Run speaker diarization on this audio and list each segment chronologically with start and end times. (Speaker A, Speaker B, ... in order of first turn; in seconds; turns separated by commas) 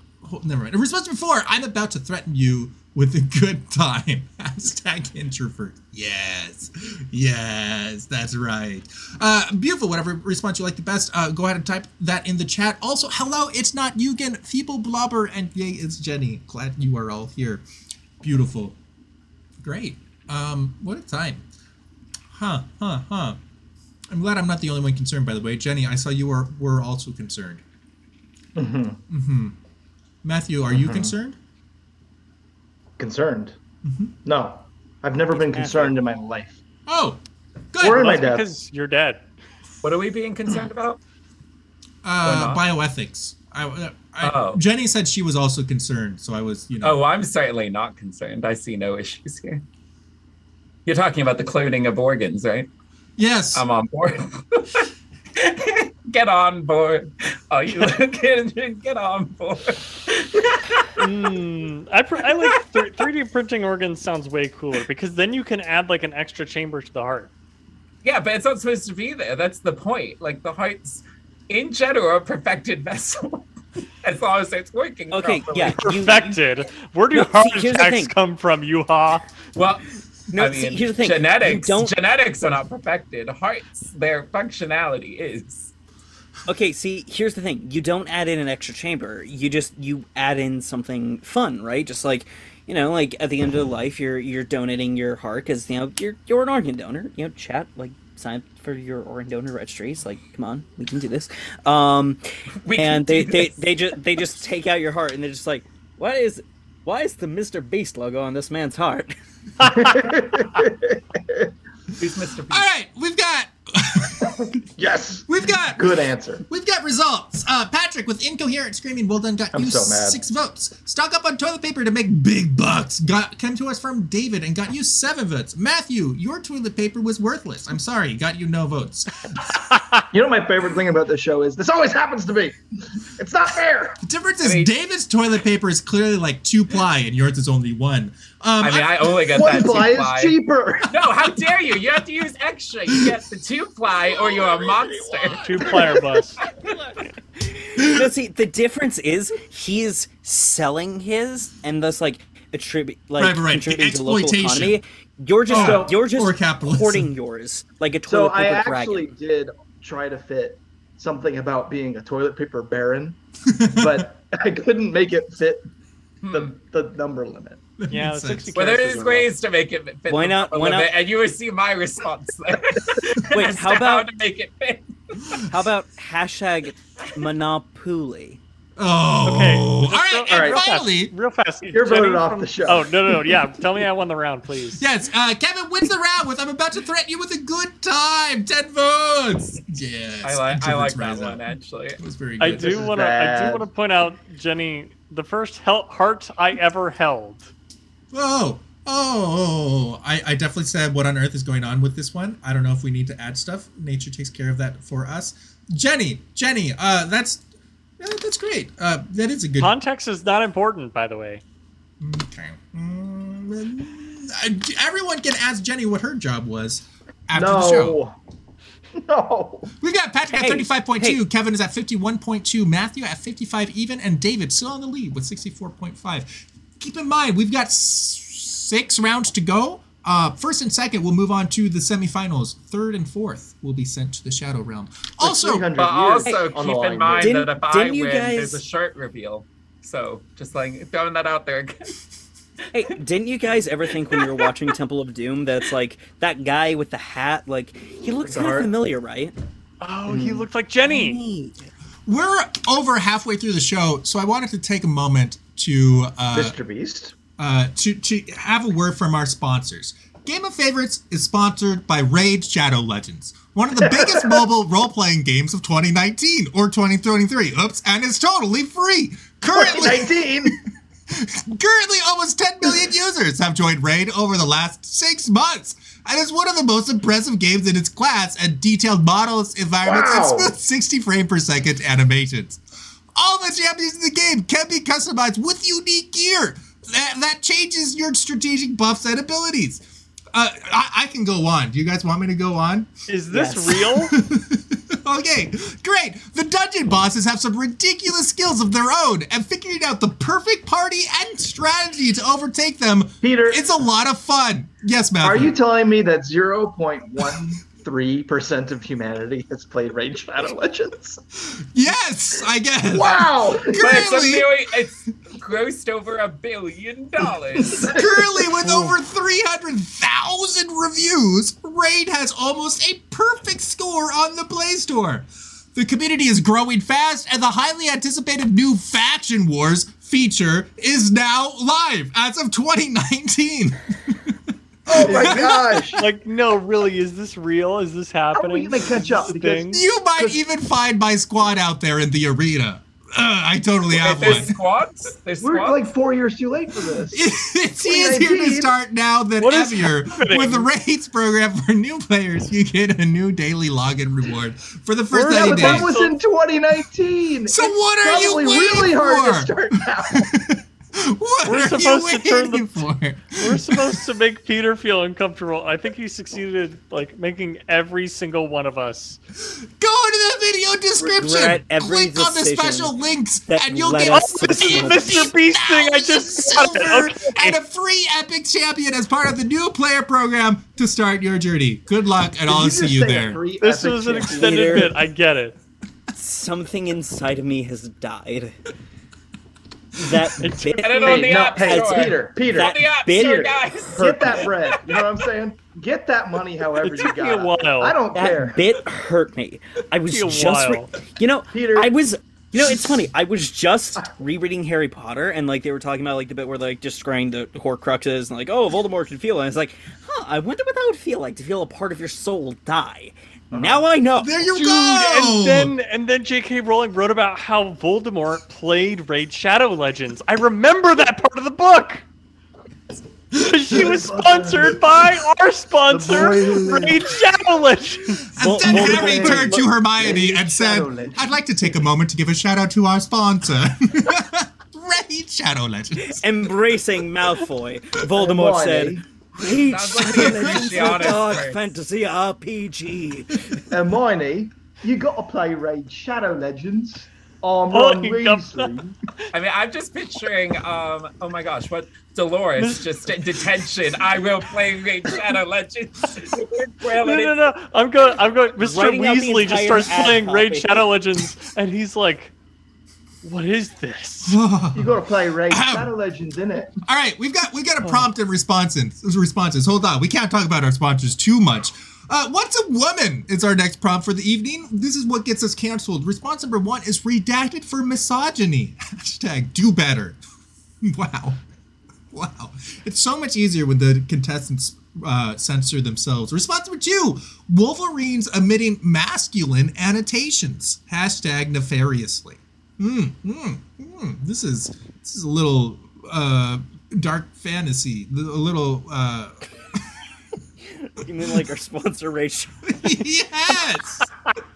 Speaker A: 0.2-17.6, Speaker A: 18.2-18.8, Speaker A: 19.6-21.4, Speaker A: 22.3-23.4, Speaker A: 24.1-27.6, Speaker B: 28.6-29.0, Speaker A: 29.1-29.5, Speaker A: 30.2-31.4, Speaker B: 30.7-31.1, Speaker B: 33.0-33.6, Speaker A: 33.8-34.1, Speaker B: 34.2-36.6, Speaker C: 35.3-35.9, Speaker A: 36.9-37.2, Speaker A: 37.7-38.1, Speaker B: 37.8-38.5, Speaker D: 37.9-39.3, Speaker E: 39.8-41.0, Speaker A: 42.0-47.0, Speaker E: 42.2-42.6, Speaker E: 44.2-44.6, Speaker E: 46.8-49.6, Speaker E: 50.9-52.7, Speaker A: 53.2-53.6, Speaker E: 53.5-60.9, Speaker D: 61.0-67.3, Speaker E: 68.0-73.5, Speaker E: 74.0-75.8, Speaker C: 75.1-76.4, Speaker D: 75.8-79.3, Speaker C: 77.1-78.1, Speaker E: 79.5-85.7, Speaker C: 80.3-81.9, Speaker C: 86.5-102.2, Speaker E: 102.6-103.6, Speaker C: 102.7-109.2, Speaker B: 109.6-111.5, Speaker E: 112.0-112.7, Speaker A: 112.5-114.6, Speaker B: 114.8-116.4, Speaker A: 115.3-129.8, Speaker B: 119.5-120.2, Speaker B: 130.1-134.0, Speaker A: 134.0-139.8, Speaker E: 134.4-134.7, Speaker E: 138.6-145.5, Speaker B: 139.3-141.0, Speaker C: 145.1-145.6, Speaker D: 145.4-146.4, Speaker C: 147.4-159.1, Speaker A: 147.8-148.1, Speaker A: 153.2-154.8, Speaker B: 155.5-156.0, Speaker A: 155.5-157.1, Speaker B: 158.0-163.2, Speaker A: 163.4-164.1, Speaker B: 163.8-165.6, Speaker E: 166.2-166.5, Speaker B: 166.3-167.6, Speaker A: 167.8-168.5, Speaker D: 167.9-169.3, Speaker E: 168.5-175.4, Speaker C: 170.1-170.9, Speaker C: 173.3-174.1, Speaker C: 175.5-178.4, Speaker A: 178.8-181.1, Speaker D: 179.2-184.8, Speaker B: 180.3-180.6, Speaker B: 181.7-182.9, Speaker A: 184.8-191.4, Speaker E: 190.2-192.0, Speaker A: 192.0-192.9, Speaker D: 192.4-197.5, Speaker B: 192.5-193.7, Speaker A: 198.1-207.4, Speaker A: 208.0-209.8, Speaker D: 209.6-211.4, Speaker A: 212.0-218.0, Speaker B: 217.3-218.1, Speaker B: 219.0-219.7, Speaker A: 219.8-235.7, Speaker C: 220.3-221.2, Speaker B: 235.2-237.5, Speaker E: 235.8-241.9, Speaker C: 237.2-238.6, Speaker C: 242.7-249.3, Speaker E: 244.1-244.5, Speaker B: 248.2-248.7, Speaker D: 249.8-251.2, Speaker B: 250.1-250.4, Speaker C: 250.8-251.6, Speaker A: 252.1-256.6, Speaker B: 256.3-257.1, Speaker A: 257.4-282.6, Speaker B: 263.8-264.4, Speaker B: 269.5-270.6, Speaker B: 279.8-280.5, Speaker A: 283.1-292.9, Speaker D: 293.1-294.1, Speaker C: 293.3-293.8, Speaker A: 294.0-305.5, Speaker B: 303.2-303.8, Speaker B: 305.2-311.2, Speaker A: 311.5-314.6, Speaker B: 312.9-314.1, Speaker E: 313.7-318.0, Speaker B: 317.7-318.0, Speaker A: 317.9-336.0, Speaker D: 318.6-318.9, Speaker B: 334.9-336.0, Speaker D: 336.0-339.8, Speaker B: 338.3-340.4, Speaker A: 339.7-344.6, Speaker E: 343.9-345.9, Speaker B: 345.4-347.2, Speaker A: 347.1-355.9, Speaker B: 347.8-348.7, Speaker D: 349.4-350.7, Speaker D: 355.1-356.1, Speaker B: 355.1-360.3, Speaker A: 357.4-364.0, Speaker D: 361.4-362.9, Speaker D: 363.4-369.2, Speaker A: 369.4-383.4, Speaker C: 371.0-372.9, Speaker C: 373.5-375.3, Speaker D: 374.1-377.6, Speaker B: 382.4-384.9, Speaker D: 383.6-385.6, Speaker C: 384.3-384.9, Speaker C: 386.1-388.5, Speaker C: 389.9-394.4, Speaker D: 390.4-391.2, Speaker E: 390.8-394.8, Speaker B: 391.0-398.6, Speaker D: 396.8-397.9, Speaker C: 398.1-414.3, Speaker D: 400.1-400.9, Speaker B: 401.5-401.9, Speaker B: 413.5-413.9, Speaker A: 414.2-415.7, Speaker D: 414.5-422.0, Speaker D: 423.3-428.2, Speaker B: 423.7-424.8, Speaker B: 425.9-427.1, Speaker A: 428.3-436.3, Speaker C: 428.4-429.7, Speaker B: 428.6-431.8, Speaker C: 436.1-443.6, Speaker B: 438.1-439.0, Speaker E: 439.7-441.7, Speaker A: 440.1-441.2, Speaker B: 443.7-448.9, Speaker D: 447.7-448.8, Speaker E: 449.3-457.4, Speaker D: 452.6-452.8, Speaker D: 457.0-462.3, Speaker C: 458.6-460.8, Speaker D: 463.2-464.4, Speaker A: 464.2-465.9, Speaker B: 464.7-466.7, Speaker A: 466.8-480.2, Speaker D: 467.8-468.1, Speaker A: 480.8-481.4, Speaker A: 482.1-500.0, Speaker C: 500.6-502.9, Speaker A: 502.7-504.1